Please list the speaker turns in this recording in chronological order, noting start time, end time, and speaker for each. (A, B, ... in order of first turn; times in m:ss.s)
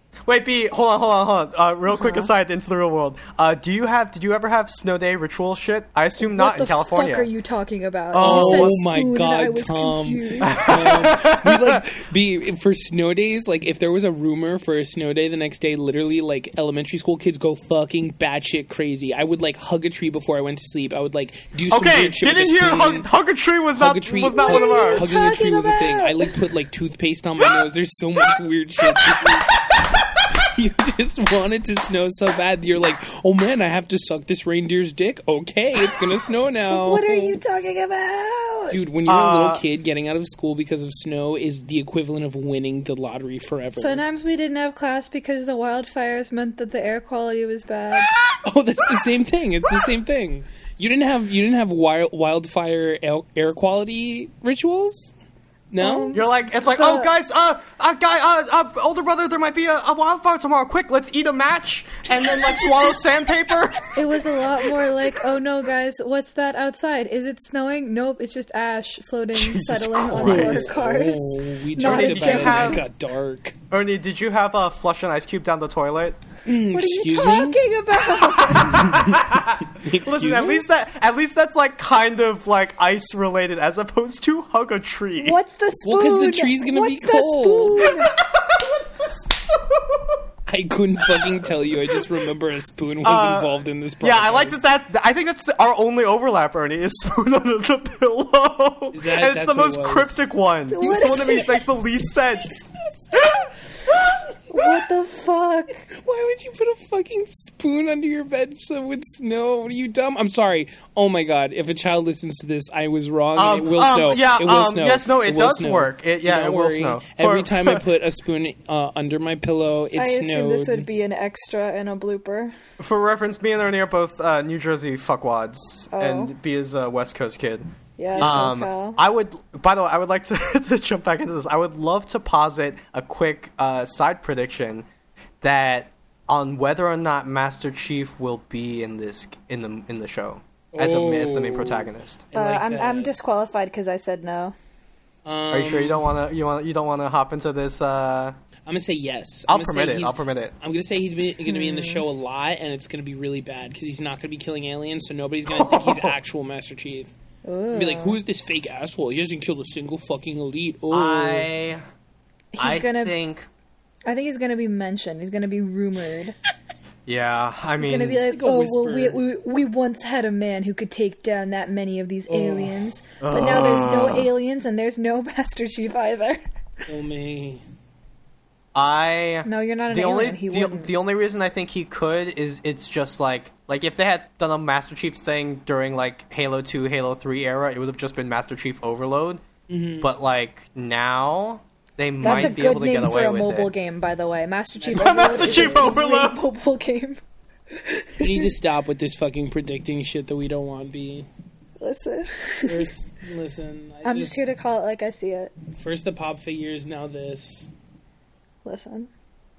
0:00.3-0:07.3 A
0:01.9-0:02.3 B
0:06.2-0:11.1 B
0:08.1-0:08.8 A
0:08.2-0:23.1 C
0:10.4-0:11.8 A
0:21.7-0:25.1 A
0:23.8-0:29.6 C
0:24.4-0:26.3 B
0:28.9-0:30.2 A
0:30.3-0:37.4 C
0:36.7-0:38.8 B
0:38.7-0:44.0 C
0:39.1-0:39.6 A
0:43.8-0:48.1 B
0:48.3-0:55.1 C
0:55.7-0:56.2 C
0:55.8-0:57.1 B
0:56.1-1:03.9 A
1:02.3-1:03.0 C
1:03.9-1:12.8 B
1:09.3-1:10.7 A
1:10.1-1:13.6 C
1:11.8-1:12.8 A
1:13.7-1:16.2 A
1:16.5-1:17.6 C
1:16.7-1:18.9 B
1:18.2-1:25.4 A
1:18.7-1:20.6 C
1:25.2-1:28.1 B
1:25.8-1:27.9 C
1:27.8-1:30.2 A
1:30.5-1:34.6 C
1:33.0-1:44.2 A
1:38.9-1:40.2 C
1:40.7-1:41.6 B
1:42.6-1:43.2 C
1:44.5-1:45.9 B
1:45.9-2:00.9 C
1:53.4-1:57.8 A
2:00.0-2:02.6 B
2:02.8-2:14.9 A
2:05.9-2:06.3 B
2:08.0-2:09.0 B
2:08.1-2:08.5 C
2:15.4-2:22.2 A
2:20.7-2:23.1 C
2:22.3-2:24.6 B
2:25.2-2:26.1 C
2:25.5-2:28.4 A
2:28.7-2:37.1 C
2:29.5-2:30.5 A
2:31.5-2:32.0 B
2:35.5-2:36.2 A
2:37.4-2:38.2 B
2:37.7-2:41.5 C
2:40.9-2:41.8 A
2:42.5-2:43.1 B
2:42.6-2:43.5 A
2:44.1-2:46.4 B
2:47.1-2:48.2 A
2:47.8-2:56.4 B
2:48.3-2:49.2 C
2:52.3-2:53.0 C
2:53.2-2:54.3 A
2:56.9-2:57.6 C
2:58.8-3:09.4 A
2:59.4-3:00.9 B
3:09.7-3:10.1 C
3:10.0-3:13.7 A
3:12.2-3:17.2 B
3:12.3-3:12.5 C
3:14.8-3:16.0 C
3:14.9-3:16.4 A
3:17.7-3:18.5 B
3:18.2-3:21.3 C
3:21.8-3:22.9 B
3:22.7-3:24.4 C
3:24.0-3:25.5 B
3:25.8-3:27.7 C
3:28.6-3:29.1 B